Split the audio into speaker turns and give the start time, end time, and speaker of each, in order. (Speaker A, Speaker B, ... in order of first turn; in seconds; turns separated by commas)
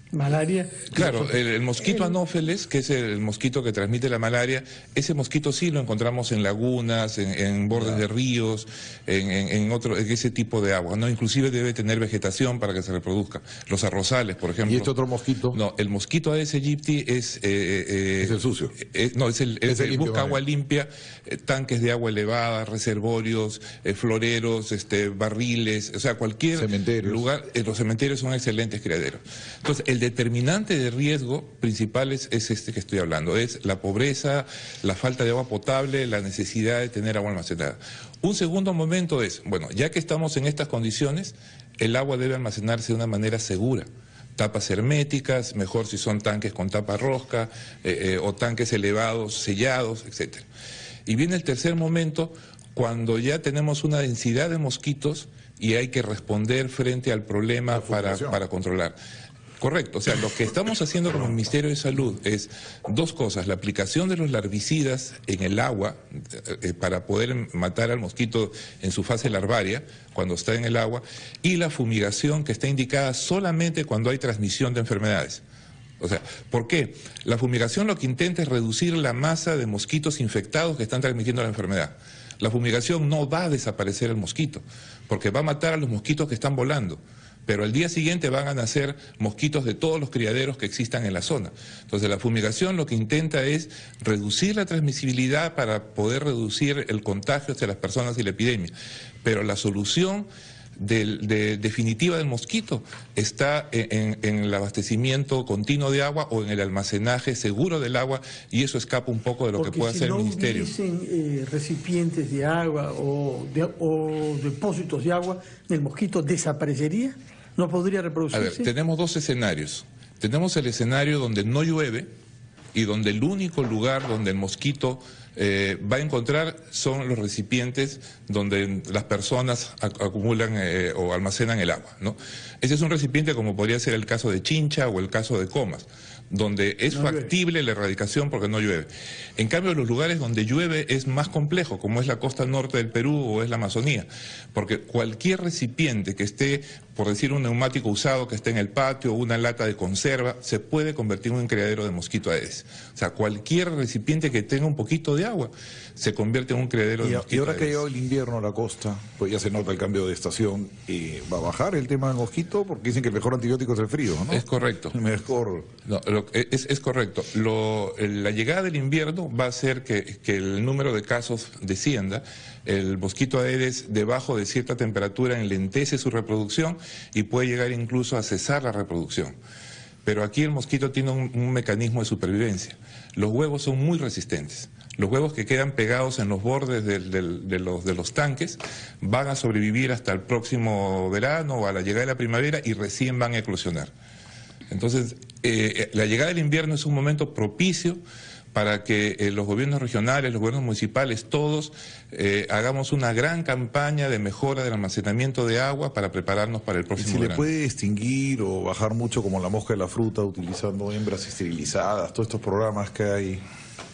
Speaker A: 0.1-1.3, Speaker B: 0.9-14.9, Speaker A: 1.8-2.1, Speaker C: 7.7-8.0, Speaker C: 14.7-15.6, Speaker B: 15.5-50.4, Speaker C: 18.2-18.8, Speaker C: 19.7-20.4, Speaker C: 26.6-27.2, Speaker B: 51.1-59.0, Speaker C: 57.7-58.4, Speaker B: 59.6-75.4, Speaker B: 76.0-98.7, Speaker B: 99.2-100.3, Speaker B: 100.8-110.7, Speaker A: 109.6-118.7, Speaker B: 118.3-122.1, Speaker B: 122.7-157.8, Speaker A: 136.9-137.3, Speaker C: 157.0-165.7, Speaker B: 164.3-164.9, Speaker B: 165.8-179.3, Speaker B: 180.1-193.9, Speaker B: 194.7-198.0, Speaker B: 198.5-207.5, Speaker C: 207.0-213.4